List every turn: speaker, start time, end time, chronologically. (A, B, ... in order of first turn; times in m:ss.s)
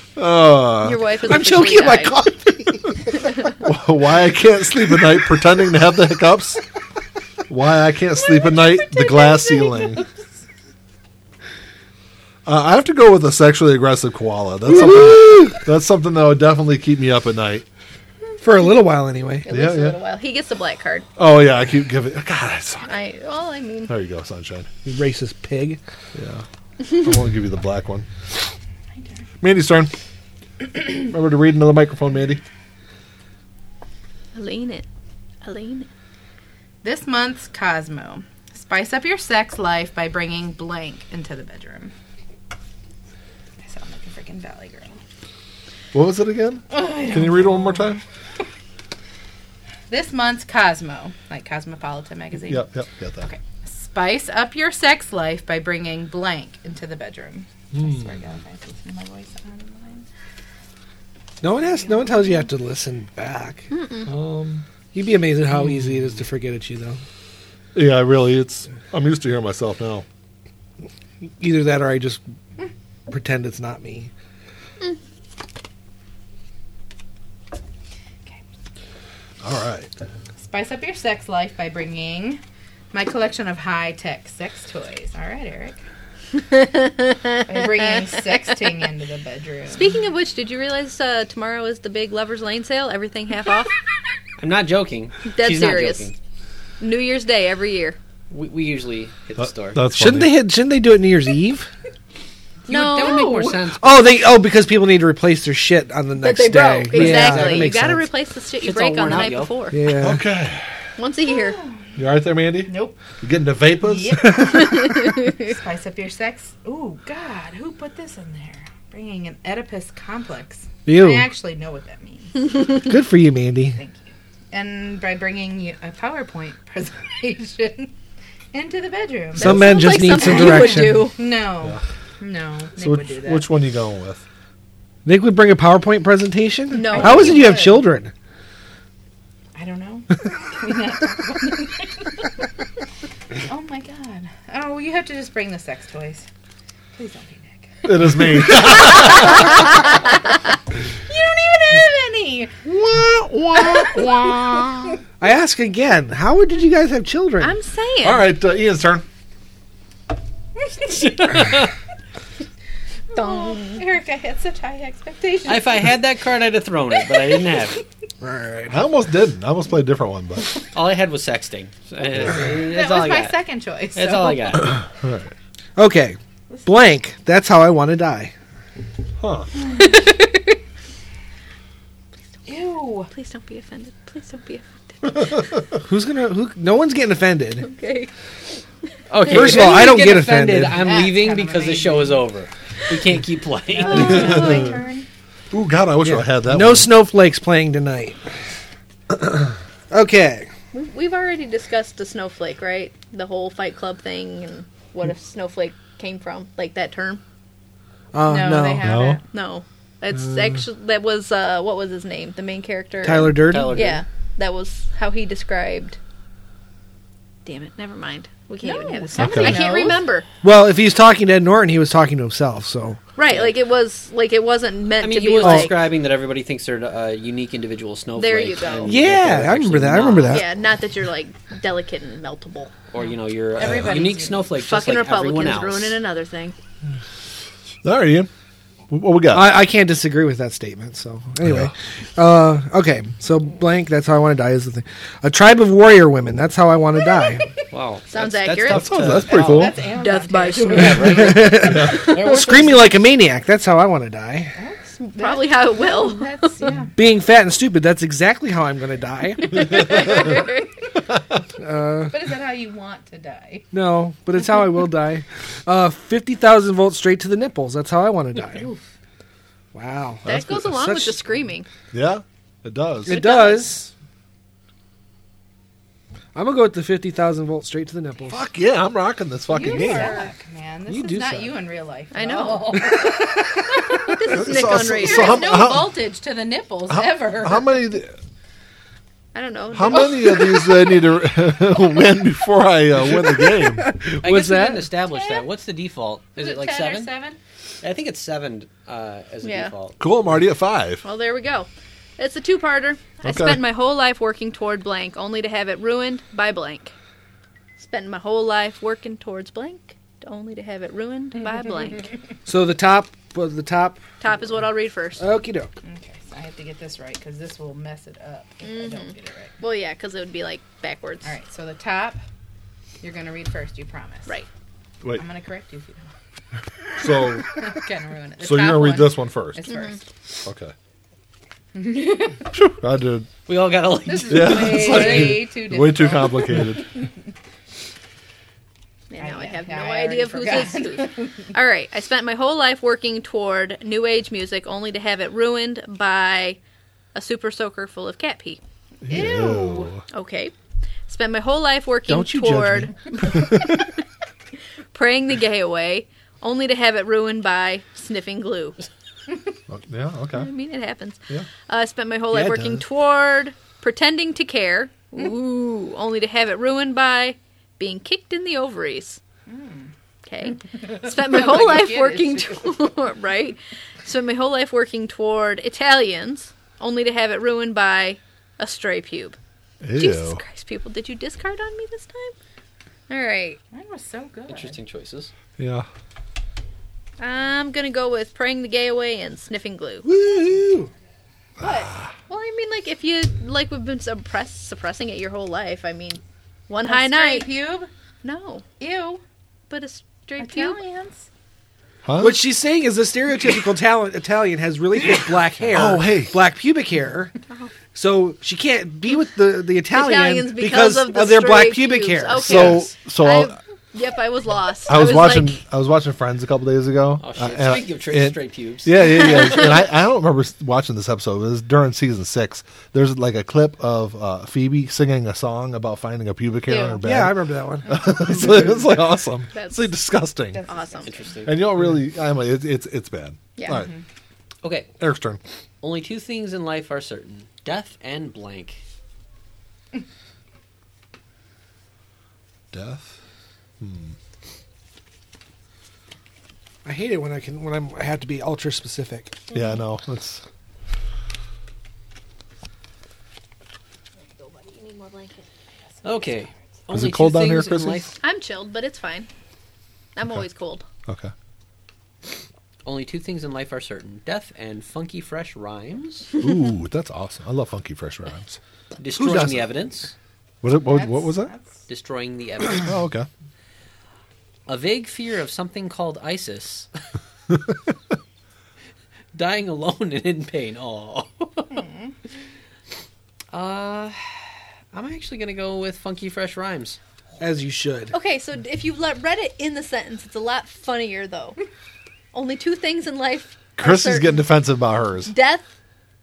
0:00.2-0:01.0 A
0:00.8-0:02.2 B
0:01.2-0:03.4 C
0:03.6-0:06.6 A
0:07.5-0:10.0 A
0:08.2-0:10.2 D
0:12.5-0:17.6 A
0:18.4-0:19.5 C
0:19.5-0:21.1 B
0:19.5-0:20.0 A
0:21.2-0:23.0 A
0:22.8-0:23.9 B
0:23.9-0:24.7 A
0:24.8-0:25.8 C
0:26.2-0:28.1 A
0:29.4-0:29.9 A
0:30.7-0:32.4 A
0:34.3-0:34.9 B
0:35.4-0:35.9 B
0:36.8-0:41.9 D
0:43.6-0:45.0 D
0:45.9-0:48.0 A
0:46.7-0:47.9 D
0:49.9-0:52.6 D
0:52.5-0:53.3 A
0:53.2-1:00.1 D
0:57.7-0:58.1 A
1:01.4-1:03.7 C
1:01.8-1:02.4 D
1:03.7-1:04.1 B
1:04.1-1:04.6 A
1:04.9-1:07.0 C
1:07.8-1:10.1 A
1:11.4-1:12.2 C
1:13.1-1:14.1 C
1:19.4-1:19.9 A
1:20.4-1:22.4 D
1:22.9-1:25.8 D
1:26.4-1:28.1 B
1:27.4-1:30.0 D
1:29.7-1:33.7 B
1:34.4-1:36.2 E
1:35.3-1:36.1 B
1:36.8-1:38.0 B
1:38.3-1:39.8 E
1:39.4-1:40.4 A
1:39.9-1:41.7 C
1:42.7-1:44.2 E
1:42.7-1:43.5 B
1:43.7-1:48.1 C
1:46.2-1:49.8 B
1:46.9-1:47.8 E
1:48.6-1:49.6 E
1:49.7-1:50.2 C
1:50.0-1:50.7 A
1:51.0-1:51.6 B
1:51.3-1:52.0 D
1:52.0-1:54.4 A
1:52.7-1:53.0 D
1:53.8-2:02.8 D
1:54.5-1:54.8 C
1:54.6-1:55.5 B
2:00.9-2:01.3 C
2:02.6-2:03.8 C
2:03.7-2:07.9 D
2:08.5-2:13.5 D
2:09.4-2:11.1 C
2:09.4-2:11.2 B
2:12.8-2:14.2 A
2:15.0-2:18.1 C
2:16.7-2:17.8 B
2:16.9-2:17.8 D
2:19.6-2:22.3 D
2:23.4-2:26.3 D
2:27.0-2:30.4 D
2:27.8-2:29.6 A
2:31.1-2:32.6 D
2:32.6-2:35.0 A
2:33.6-2:34.1 D
2:35.2-2:37.6 C
2:37.4-2:38.3 B
2:38.0-2:39.1 A
2:40.8-2:41.7 E
2:43.1-2:46.0 D
2:43.1-2:43.8 B
2:45.5-2:47.8 E
2:48.2-2:48.8 C
2:48.7-2:50.5 A
2:50.7-2:54.8 E
2:52.2-2:54.8 D
2:54.8-2:55.3 A
2:55.8-2:58.3 C
2:59.2-2:59.5 A
2:59.8-3:00.2 B
3:02.5-3:03.1 D
3:03.1-3:05.5 B
3:05.8-3:07.7 C
3:07.6-3:08.1 B
3:09.1-3:14.7 E
3:09.2-3:10.8 C
3:10.7-3:12.3 D
3:13.7-3:15.1 D
3:14.0-3:14.7 A
3:15.5-3:16.9 A
3:16.0-3:18.2 C
3:19.9-3:20.5 C
3:20.7-3:27.2 B
3:28.1-3:28.9 C
3:28.2-3:29.2 D
3:28.8-3:29.2 A
3:29.3-3:36.0 B
3:33.0-3:34.0 C
3:33.5-3:34.0 E
3:37.4-3:40.3 B
3:38.6-3:40.0 D
3:39.2-3:39.6 A
3:40.4-3:43.0 C
3:43.2-3:45.8 B
3:43.3-3:43.5 E
3:45.0-3:50.4 E
3:45.4-3:45.7 C
3:48.2-3:49.0 B
3:48.9-3:50.5 C
3:50.3-3:52.7 B
3:52.9-3:56.0 E
3:53.0-3:54.5 D
3:54.6-3:56.6 B
3:57.8-3:58.3 A
3:58.9-3:59.6 A
3:59.3-4:07.5 C
4:01.4-4:01.7 A
4:07.7-4:09.7 E
4:08.1-4:08.9 B
4:08.6-4:09.8 A
4:09.3-4:12.7 D
4:10.0-4:11.6 B
4:10.7-4:12.5 E
4:11.0-4:14.5 C
4:11.6-4:12.2 A
4:14.6-4:16.9 D
4:15.0-4:16.7 B
4:17.0-4:20.1 C
4:19.6-4:20.4 B
4:19.7-4:20.6 D
4:21.6-4:22.2 C
4:22.1-4:23.7 D
4:23.7-4:28.7 C
4:29.7-4:31.2 C
4:30.2-4:30.7 A
4:30.3-4:31.7 B
4:31.9-4:33.2 A
4:33.0-4:33.9 C
4:33.1-4:33.7 B
4:36.4-4:38.4 C
4:38.3-4:40.2 A
4:39.5-4:47.8 D
4:39.6-4:40.3 B
4:39.7-4:40.1 C
4:40.9-4:41.6 C
4:42.1-4:43.2 B
4:43.7-4:45.6 B
4:44.3-4:46.0 A
4:46.9-4:48.2 A
4:49.3-4:50.6 B
4:49.7-4:53.9 A
4:53.5-4:54.9 C
4:54.2-4:57.1 E
4:55.1-4:55.5 D
4:56.4-4:57.4 D
4:57.8-5:00.0 E
4:59.4-4:59.7 B
5:00.0-5:01.0 A
5:01.0-5:06.9 B
5:03.2-5:03.6 A
5:07.8-5:12.1 B
5:12.5-5:14.0 C
5:14.2-5:15.2 B
5:15.2-5:15.7 C
5:15.8-5:19.6 D
5:18.6-5:21.3 B
5:21.2-5:22.2 D
5:23.0-5:24.4 D
5:25.1-5:26.1 D
5:27.0-5:27.5 A
5:27.5-5:30.0 D
5:28.4-5:29.7 A
5:29.7-5:30.0 B
5:30.4-5:30.7 A
5:31.7-5:32.5 D
5:32.5-5:33.3 A
5:33.5-5:35.3 E
5:34.1-5:37.1 D
5:34.2-5:36.9 A
5:39.1-5:46.6 B
5:39.2-5:41.5 D
5:47.1-5:48.6 B
5:49.0-5:50.0 A
5:49.1-5:49.9 D
5:50.1-5:50.5 B
5:51.1-5:53.8 B
5:52.1-5:52.9 C
5:54.9-5:58.8 B
5:59.7-6:00.5 A
6:00.3-6:09.2 B
6:02.3-6:02.8 C
6:09.5-6:09.9 D
6:10.2-6:19.4 B
6:10.8-6:12.8 D
6:19.8-6:20.4 A
6:20.0-6:22.4 B
6:23.1-6:23.6 B
6:23.7-6:24.8 D
6:24.5-6:25.3 E
6:25.6-6:25.9 A
6:27.2-6:30.1 B
6:30.0-6:30.9 C
6:31.6-6:32.1 A
6:31.6-6:37.5 B
6:36.8-6:37.9 D
6:38.2-6:38.7 B
6:38.8-6:39.2 D
6:39.7-6:40.8 B
6:40.4-6:41.3 D
6:42.0-6:42.4 A
6:42.2-6:47.3 C
6:45.7-6:46.4 A
6:47.5-6:47.7 B
6:47.9-6:52.9 C
6:49.9-6:55.6 B
6:52.4-6:53.6 A
6:54.9-7:10.6 A
6:57.2-6:59.7 E
7:06.7-7:07.0 D
7:07.0-7:08.1 C
7:09.5-7:09.9 B
7:10.5-7:11.3 D
7:10.7-7:11.2 B
7:11.0-7:11.6 E
7:11.5-7:13.9 A
7:13.6-7:13.9 B
7:13.7-7:14.0 D
7:14.6-7:14.9 E
7:15.0-7:15.4 A
7:15.8-7:18.8 E
7:22.7-7:23.2 A
7:23.8-7:24.2 A
7:26.8-7:29.5 C
7:29.5-7:30.4 A
7:34.4-7:35.5 D
7:36.0-7:36.5 D
7:36.0-7:38.2 E
7:36.9-7:38.1 A
7:38.2-7:39.3 B
7:40.2-7:40.9 B
7:41.1-7:41.3 A
7:42.8-7:46.3 E
7:46.4-7:48.6 A
7:49.0-7:50.1 E
7:49.2-7:49.6 C
7:50.6-7:51.5 A
7:50.8-7:51.8 D
7:51.9-7:53.0 E
7:52.8-7:53.3 A
7:54.7-7:56.9 E
7:57.5-7:57.8 A
7:59.3-8:01.8 E
8:01.7-8:02.1 D
8:03.5-8:04.4 E
8:04.9-8:07.0 E
8:07.4-8:08.2 C
8:08.1-8:11.6 B
8:12.3-8:14.5 B
8:13.8-8:15.3 A
8:15.3-8:15.7 B